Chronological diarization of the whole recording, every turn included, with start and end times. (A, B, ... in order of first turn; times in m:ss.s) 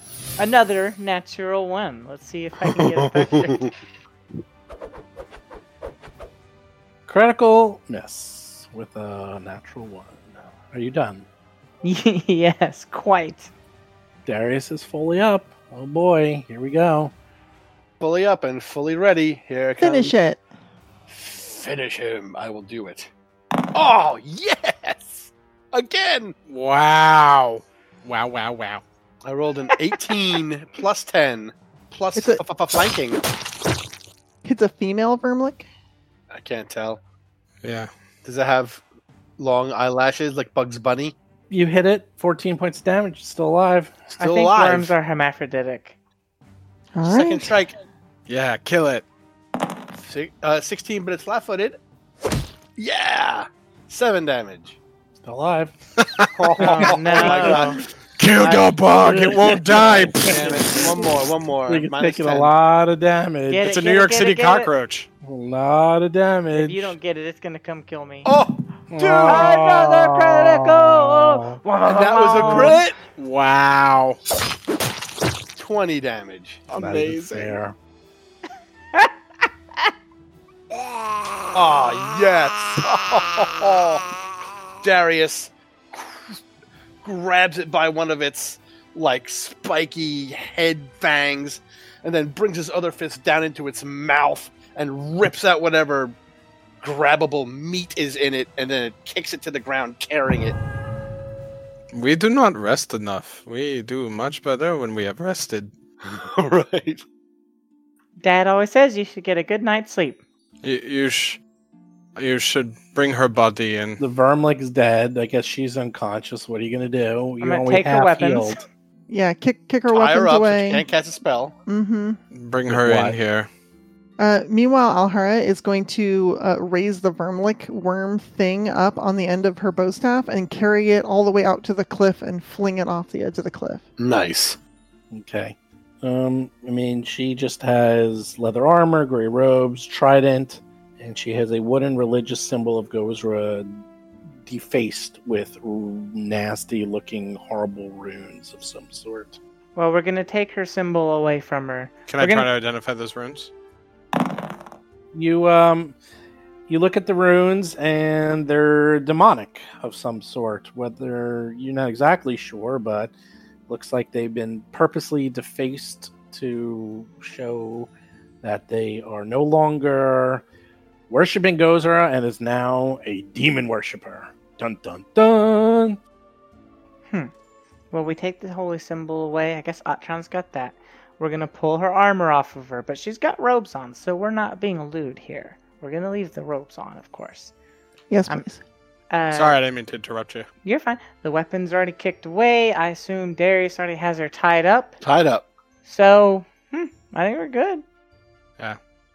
0:00.4-0:03.7 A
0:02.7-0:03.7 B
0:07.1-0:11.3 C
0:11.8-0:13.5 A
0:14.3-0:17.1 C
0:18.0-0:20.1 B
0:19.8-0:20.4 D
0:21.1-0:23.1 B
0:23.7-0:26.4 B
0:26.5-0:28.8 E
0:29.2-0:33.2 B
0:32.2-0:32.4 D
0:34.4-0:35.7 D
0:36.3-0:37.0 B
0:37.6-0:37.9 E
0:38.2-0:38.8 B
0:39.4-0:41.2 B
0:41.5-0:44.0 C
0:44.1-0:44.9 B
0:44.2-0:46.0 A
0:47.0-0:47.6 D
0:47.0-0:47.8 B
0:48.3-0:49.0 E
0:50.0-0:51.8 B
0:52.8-0:54.8 B
0:55.2-0:55.8 C
0:56.0-0:56.5 E
0:56.4-0:57.8 B
0:56.6-0:57.7 C
0:56.6-0:57.8 A
0:58.2-1:00.9 E
0:59.0-1:03.7 C
1:00.2-1:02.5 B
1:03.5-1:04.7 A
1:03.6-1:05.1 E
1:05.2-1:07.0 C
1:06.5-1:08.3 A
1:08.2-1:09.5 B
1:08.9-1:12.8 C
1:09.2-1:12.8 A
1:11.9-1:13.0 B
1:13.2-1:14.2 E
1:15.6-1:16.6 B
1:16.7-1:17.6 E
1:16.8-1:17.8 C
1:21.5-1:24.1 B
1:24.8-1:26.4 B
1:27.0-1:36.2 B
1:36.8-1:40.6 B
1:41.9-1:45.7 E
1:46.0-1:47.0 B
1:48.2-1:50.2 A
1:50.6-1:51.4 E
1:52.2-1:54.0 E
1:54.0-1:58.6 C
1:57.4-1:58.6 A
1:59.1-2:00.9 D
1:59.9-2:01.6 B
2:01.7-2:02.2 D
2:02.3-2:03.5 E
2:02.7-2:03.2 C
2:04.2-2:13.8 D
2:14.0-2:14.6 B
2:15.1-2:23.8 C
2:24.4-2:29.4 C
2:29.8-2:32.5 A
2:32.1-2:33.5 E
2:35.1-2:36.0 C
2:36.7-2:43.1 C
2:43.7-2:47.9 C
2:48.4-2:50.4 C
2:51.1-2:56.0 C
2:57.9-3:07.5 A
3:08.1-3:08.6 D
3:09.1-3:09.6 A
3:09.3-3:10.5 E
3:10.6-3:15.0 A
3:15.0-3:15.5 B
3:15.8-3:17.8 A